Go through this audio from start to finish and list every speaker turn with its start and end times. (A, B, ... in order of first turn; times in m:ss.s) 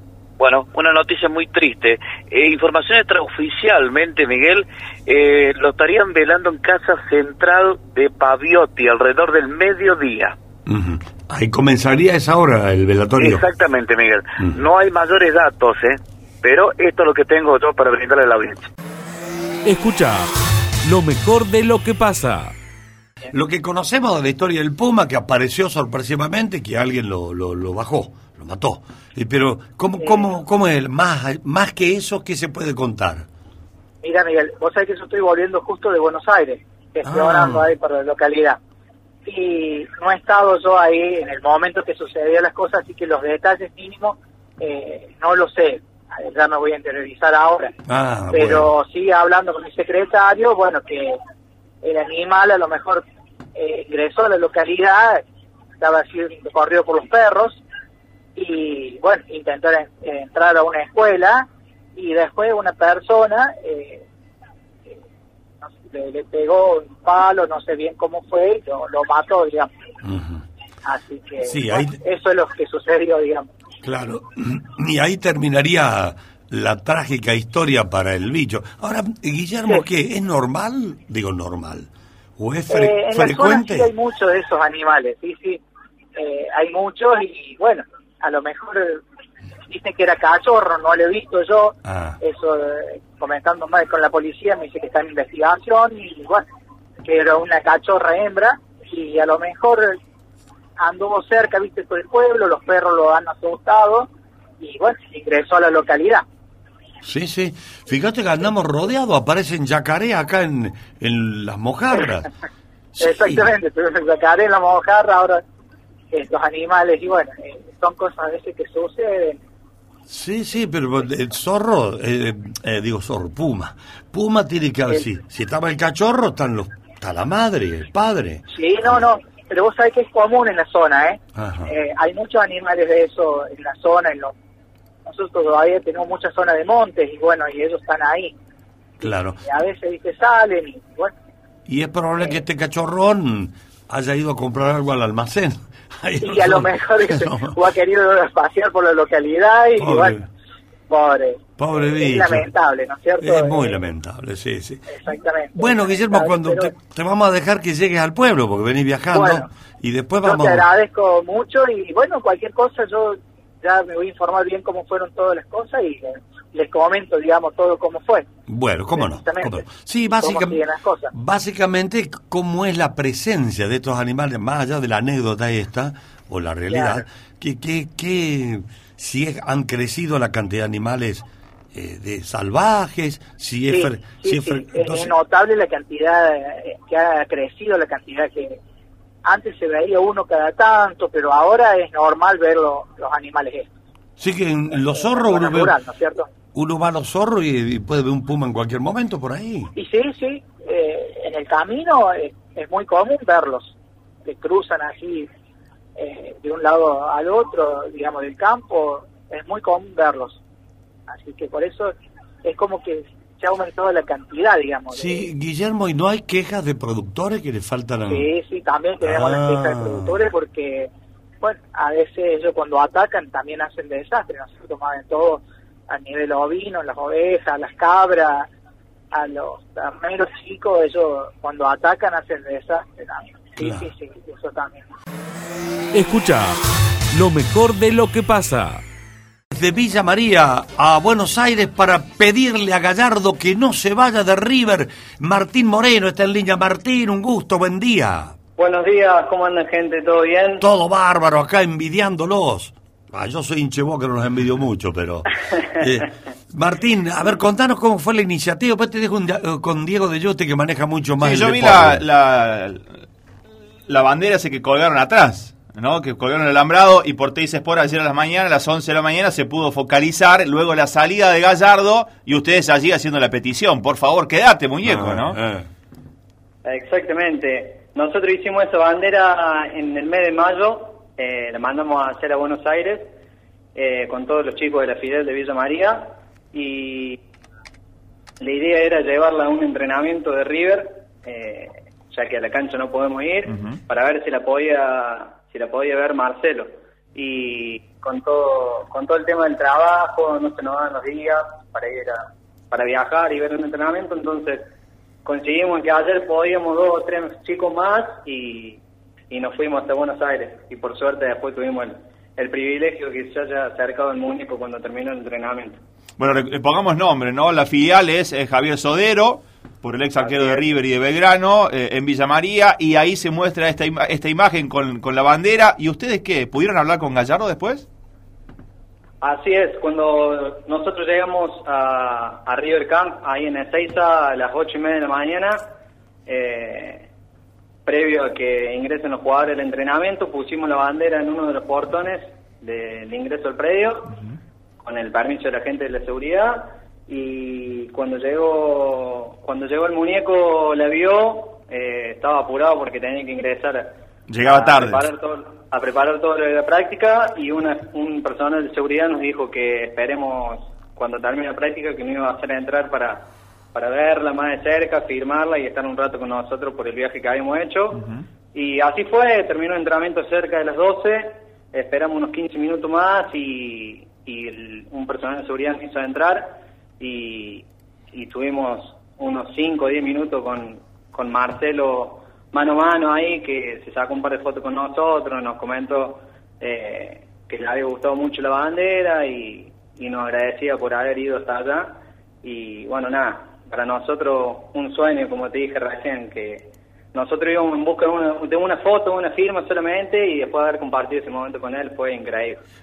0:00.4-0:10.4 A
0:10.7-0:13.4 B
0:13.2-0:18.7 A
0:19.6-0:20.3 C
0:20.8-0:22.5 C
0:23.3-0:33.3 B
0:30.0-0:30.3 D
0:34.0-0:38.6 D
0:37.1-0:37.7 B
0:39.3-0:47.7 D
0:47.9-0:48.7 B
0:48.3-0:51.2 D
0:51.8-0:53.0 D
0:53.6-0:55.2 D
0:55.8-0:57.6 D
0:58.4-1:04.0 D
1:05.6-1:09.7 D
1:10.0-1:10.4 B
1:10.9-1:13.5 D
1:11.4-1:12.0 B
1:13.8-1:23.9 B
1:22.7-1:25.6 D
1:26.2-1:29.0 D
1:29.7-1:36.4 D
1:31.9-1:32.2 B
1:37.0-1:40.0 D
1:40.8-1:44.1 D
1:44.6-1:46.2 D
1:47.0-1:52.3 B
1:53.0-1:53.5 B
1:53.0-1:55.4 D
1:56.1-1:59.4 D
2:00.1-2:09.0 B
2:08.5-2:14.3 D
2:11.4-2:11.7 B
2:15.1-2:18.3 D
2:19.0-2:21.1 D
2:19.0-2:19.4 B
2:21.7-2:27.6 B
2:26.2-2:30.2 D
2:29.8-2:30.3 B
2:30.9-2:33.8 D
2:31.6-2:32.5 B
2:33.2-2:34.9 B
2:34.9-2:36.7 D
2:35.5-2:40.7 B
2:39.1-2:39.5 D
2:40.2-2:48.3 D
2:48.5-2:50.6 B
2:49.0-2:51.1 D
2:51.1-3:05.1 B
2:56.7-2:57.0 D
3:03.7-3:08.6 D
3:09.2-3:13.7 D
3:14.2-3:15.8 B
3:14.9-3:16.3 D
3:16.5-3:19.7 B
3:19.8-3:23.7 D
3:24.3-3:25.3 D
3:26.0-3:30.4 D
3:31.1-3:35.2 D
3:34.9-3:38.3 B
3:38.1-3:40.9 D
3:39.0-3:40.2 B
3:41.4-3:48.5 D
3:49.1-3:54.9 D
3:53.6-3:53.8 B
3:55.9-3:56.6 C
3:57.1-3:58.8 C
3:59.5-4:08.4 B
4:08.6-4:10.6 E
4:10.6-4:22.0 B
4:21.2-4:22.9 F
4:23.9-4:35.4 F
4:34.8-4:35.7 B
4:36.6-4:43.1 E
4:43.8-4:47.2 E
4:48.4-5:04.7 E
4:53.5-4:53.8 F
5:05.2-5:08.8 E
5:09.3-5:15.8 E
5:16.2-5:27.9 F
5:20.2-5:20.7 E
5:29.2-5:35.6 E
5:36.3-5:37.1 E
5:37.9-5:44.2 E
5:44.8-5:53.9 E
5:54.3-5:55.1 F
5:54.4-6:42.6 E
6:07.9-6:08.2 F